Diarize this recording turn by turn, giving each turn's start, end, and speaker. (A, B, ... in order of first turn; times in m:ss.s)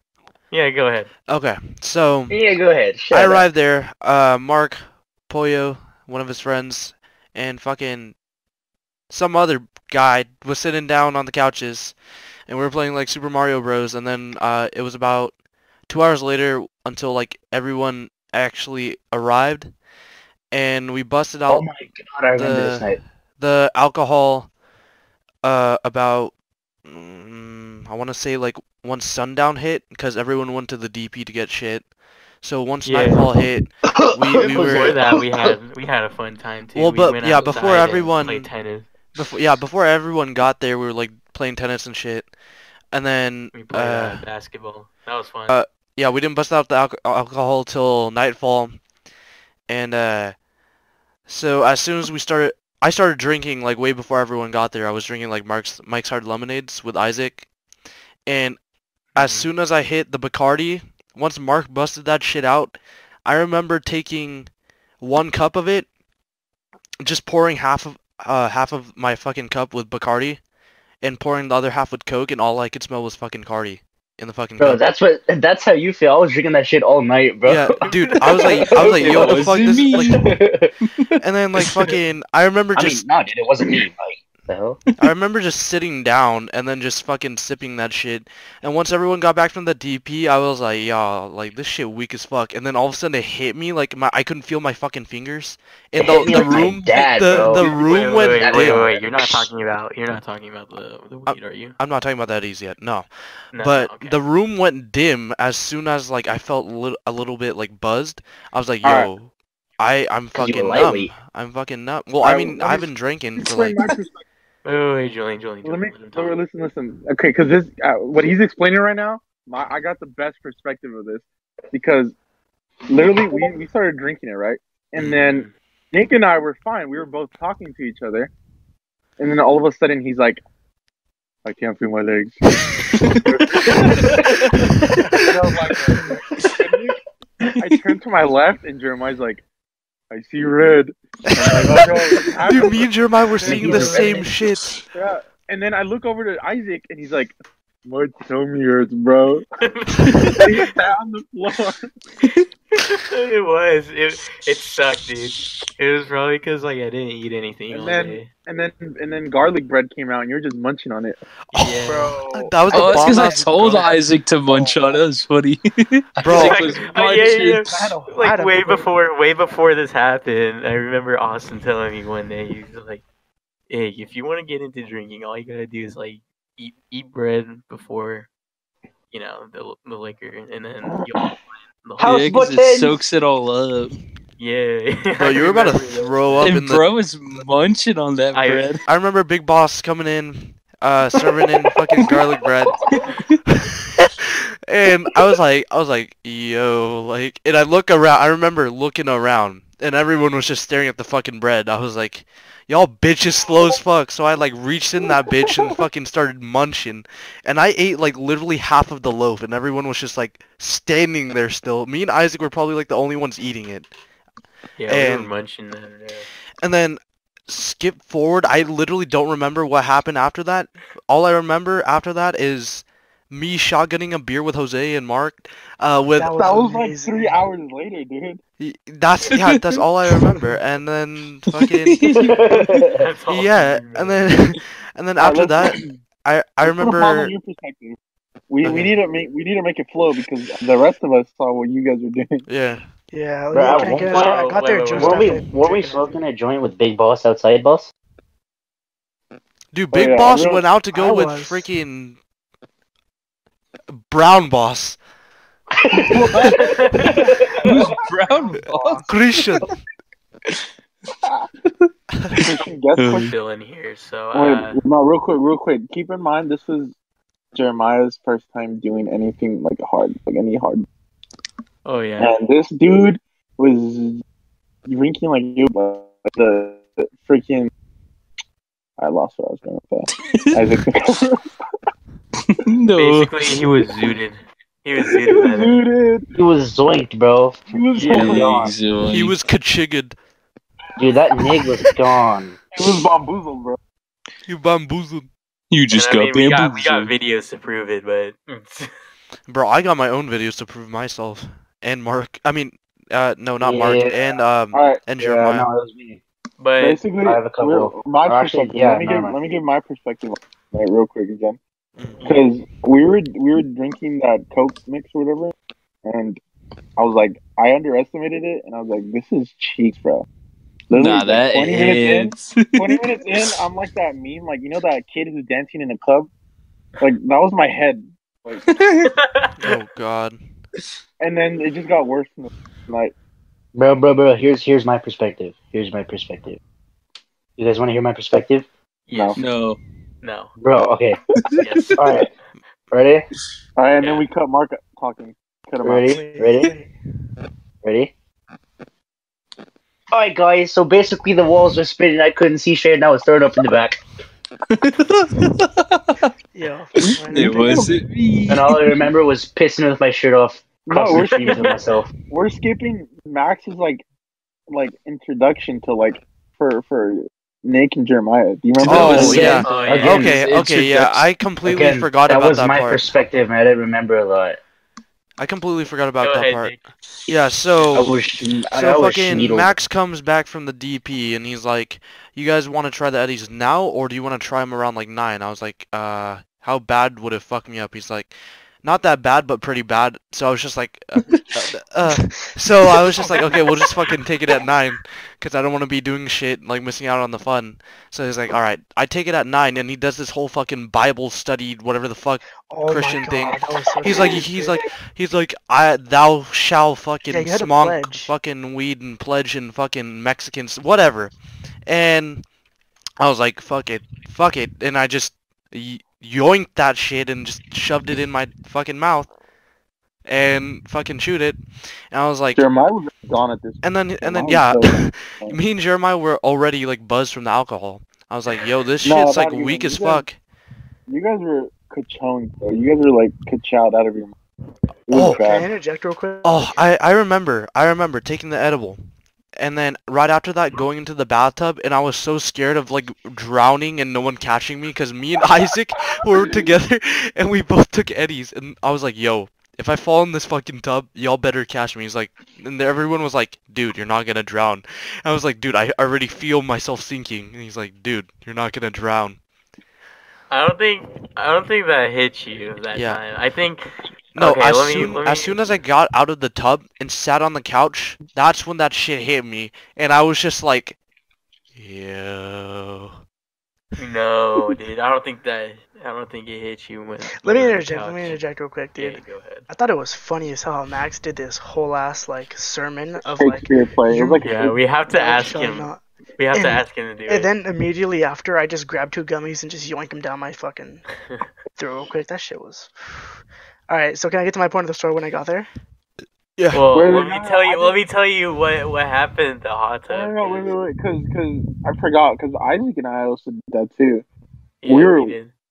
0:00.5-0:01.1 A
0:01.3-0:02.4 B
0:02.3-0:03.5 C
0:03.1-0:08.2 B
0:09.1-0:12.0 B
0:12.5-0:15.3 B
0:15.9-0:19.7 B
0:20.5-0:21.7 B
0:21.5-0:23.0 C
0:22.4-0:24.5 B
0:25.4-0:26.3 B
0:26.9-0:31.9 B
0:32.4-0:35.0 B
0:32.8-0:33.3 A
0:33.9-0:35.5 C
0:34.4-0:38.9 A
0:36.8-0:38.5 B
0:39.2-0:42.3 B
0:42.9-0:44.2 B
0:43.5-0:45.6 A
0:45.5-0:48.8 B
0:49.7-0:50.4 B
0:51.3-0:57.5 B
0:58.3-0:58.6 B
0:59.1-0:59.5 A
0:59.2-1:04.5 B
1:05.0-1:05.9 B
1:07.0-1:10.4 B
1:11.0-1:14.8 B
1:14.6-1:17.8 C
1:17.4-1:20.3 B
1:18.5-1:21.9 D
1:18.5-1:20.7 C
1:21.2-1:23.0 B
1:22.8-1:24.8 C
1:25.0-1:38.8 B
1:36.0-1:39.5 C
1:37.5-1:41.8 A
1:41.3-1:53.8 B
1:43.5-1:44.2 A
1:48.8-1:49.1 E
1:50.4-1:51.1 C
1:52.2-1:54.2 E
1:54.6-1:56.4 A
1:55.6-2:02.2 E
2:02.9-2:08.3 E
2:05.0-2:05.5 A
2:09.2-2:10.4 E
2:11.4-2:12.4 E
2:13.0-2:14.1 D
2:13.3-2:14.2 E
2:14.9-2:15.1 B
2:15.2-2:17.0 E
2:16.0-2:16.2 F
2:17.4-2:17.9 D
2:17.6-2:19.4 E
2:20.1-2:24.0 E
2:21.2-2:21.9 B
2:22.5-2:24.8 B
2:23.4-2:24.3 C
2:23.8-2:24.2 F
2:24.9-2:27.3 E
2:27.8-2:29.4 E
2:29.6-2:30.4 A
2:30.4-2:31.9 E
2:32.8-2:38.3 A
2:37.7-2:41.2 E
2:41.5-2:43.9 B
2:41.6-2:42.2 A
2:41.8-2:45.0 F
2:42.7-2:47.9 D
2:46.2-2:46.7 B
2:46.3-2:53.0 A
2:46.3-2:48.9 F
2:53.7-2:58.3 A
2:59.1-3:01.3 A
3:00.9-3:01.3 E
3:01.8-3:02.3 A
3:02.0-3:03.0 C
3:02.0-3:04.0 D
3:04.4-3:06.5 A
3:05.2-3:06.9 B
3:06.4-3:08.9 D
3:08.3-3:08.7 A
3:08.9-3:12.9 B
3:12.9-3:13.4 D
3:13.5-3:33.9 B
3:34.8-3:36.3 A
3:34.9-3:35.3 B
3:36.6-3:46.4 B
3:46.2-3:47.4 F
3:46.3-3:48.4 E
3:48.6-3:52.1 B
3:49.3-3:49.8 D
3:51.6-3:52.9 D
3:52.2-3:53.0 C
3:53.0-3:54.2 A
3:53.3-3:57.3 B
3:55.2-3:55.9 E
3:56.6-3:58.0 E
3:58.5-4:02.4 E
3:58.6-3:58.9 B
4:02.5-4:02.8 B
4:03.1-4:06.2 F
4:03.5-4:04.4 C
4:03.7-4:05.4 A
4:04.9-4:07.9 C
4:09.7-4:12.2 B
4:09.9-4:10.6 E
4:10.9-4:11.7 F
4:14.1-4:15.0 B
4:15.8-4:17.6 C
4:16.0-4:17.5 E
4:16.6-4:17.2 A
4:17.6-4:19.7 D
4:17.7-4:19.1 F
4:19.1-4:19.7 B
4:21.7-4:22.4 D
4:22.4-4:23.3 E
4:23.0-4:23.3 D
4:23.0-4:24.8 A
4:24.3-4:27.0 E
4:27.6-4:30.9 E
4:31.8-4:32.3 A
4:32.2-4:34.2 E
4:34.9-4:37.7 E
4:39.0-4:41.4 E
4:40.1-4:40.7 D
4:42.4-4:43.7 D
4:43.0-4:45.8 A
4:45.2-4:46.3 E
4:46.3-4:48.8 C
4:47.7-4:48.7 E
4:48.0-4:49.4 D
4:49.1-4:50.2 B
4:51.0-4:52.6 C
4:52.7-4:53.8 E
4:54.5-4:55.3 B
4:55.7-4:57.1 D
4:55.9-4:58.9 A
4:59.5-5:05.7 B
5:03.6-5:04.2 C
5:04.7-5:05.0 E
5:05.2-5:06.2 C
5:06.6-5:07.0 A
5:06.8-5:11.6 E
5:07.2-5:09.4 C
5:12.0-5:12.3 B
5:12.2-5:15.5 E
5:16.0-5:16.4 E
5:17.0-5:20.3 E
5:20.9-5:26.3 E
5:20.9-5:23.6 D
5:27.0-5:28.6 E
5:28.6-5:29.1 D
5:29.0-5:29.7 A
5:29.6-5:30.4 B
5:31.2-5:33.2 E
5:33.8-5:36.6 C
5:37.6-5:38.7 C
5:39.1-5:39.4 A
5:39.1-5:39.4 E
5:39.4-5:39.8 D
5:40.2-5:40.5 A
5:40.6-5:41.2 C
5:41.4-5:42.3 D
5:41.6-5:42.2 A
5:41.9-5:42.3 C
5:42.9-5:43.3 C
5:43.8-5:46.2 E
5:44.0-5:44.3 A
5:45.8-5:46.7 C
5:46.0-5:46.9 F
5:47.8-5:48.1 C
5:50.1-5:54.0 C
5:54.7-5:56.3 D
5:56.5-5:57.9 F
5:57.0-5:59.1 D
5:57.4-5:57.9 E
5:58.5-6:02.1 C
6:00.8-6:01.7 E
6:01.2-6:01.8 A
6:02.3-6:04.0 E
6:04.7-6:09.6 E
6:08.8-6:11.2 D
6:08.9-6:13.1 B
6:09.0-6:10.4 C
6:09.2-6:10.3 A
6:11.6-6:14.6 C
6:15.4-6:16.8 B
6:16.2-6:16.8 A
6:17.3-6:18.2 B
6:17.9-6:19.8 C
6:18.7-6:28.3 B
6:28.8-6:51.3 B
6:31.2-6:31.5 D
6:32.0-6:32.5 F
6:42.7-6:44.8 F
6:47.3-6:48.3 F
6:51.9-6:52.4 B
6:53.2-6:59.3 B
7:00.3-7:01.6 B
7:02.1-7:02.6 B
7:02.6-7:05.6 E
7:03.8-7:10.4 B
7:09.0-7:10.3 E
7:11.1-7:14.3 E
7:15.1-7:15.7 E
7:15.1-7:15.4 B
7:15.2-7:16.8 F
7:16.4-7:19.0 B
7:19.6-7:39.4 B
7:40.5-7:45.6 A
7:42.9-7:43.2 B
7:44.4-7:51.0 B
7:51.8-7:53.2 B
7:54.0-7:58.4 A
7:57.4-8:04.4 F
7:59.0-7:59.7 A
8:03.3-8:04.8 E
8:04.4-8:07.5 A
8:05.1-8:11.1 F
8:11.8-8:15.7 F
8:16.6-8:16.8 B
8:16.7-8:20.7 A
8:16.9-8:18.0 E
8:20.1-8:24.3 E
8:24.8-8:25.5 A
8:24.9-8:25.4 E